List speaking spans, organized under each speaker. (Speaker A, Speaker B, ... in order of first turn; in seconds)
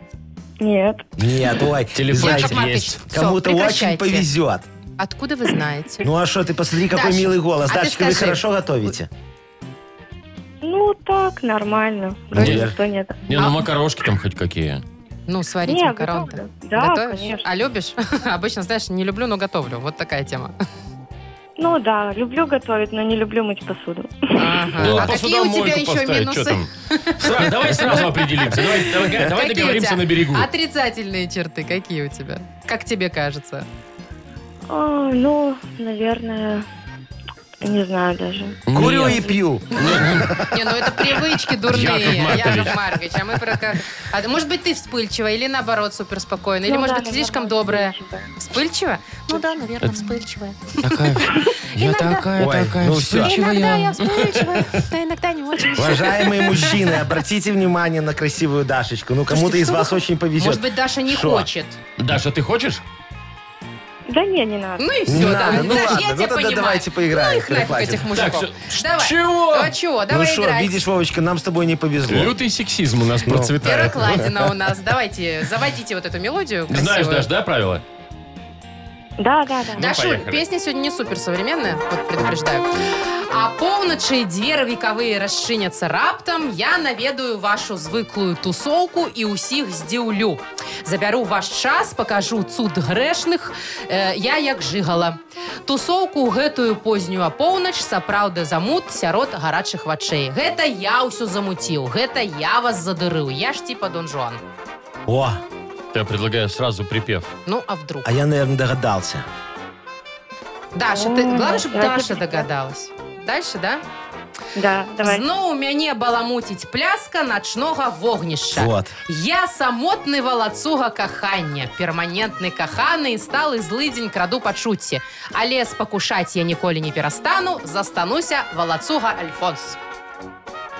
Speaker A: 0.6-1.1, 10.6-13.3, 15.7-17.5, 21.6-24.9, 34.7-36.6, 37.6-38.6, 46.7-48.3, 64.1-65.4, 79.2-79.9, 110.9-112.5, 114.6-115.2
Speaker B: 1.2-4.7, 6.0-9.1, 12.3-12.8, 38.7-41.1, 52.4-53.4, 55.8-61.5, 65.1-68.1, 70.1-72.3, 73.2-74.3, 105.1-105.4, 108.0-109.2, 118.5-118.9
Speaker C: 1.9-3.0, 12.3-12.7, 13.3-14.8, 24.8-30.5, 38.7-40.3, 41.7-42.8, 50.8-54.8, 62.0-62.8, 68.1-69.7, 72.1-74.0, 76.7-77.8, 79.8-80.4, 105.9-107.3
Speaker D: 2.1-4.3, 5.0-6.1, 6.9-8.9, 13.4-13.7, 15.3-20.6, 24.4-33.6, 40.5-52.3, 53.1-57.0, 59.3-61.8, 64.8-70.8, 73.6-77.3, 79.8-82.7, 83.3-104.4, 107.5-108.1, 110.7-113.8, 115.0-129.8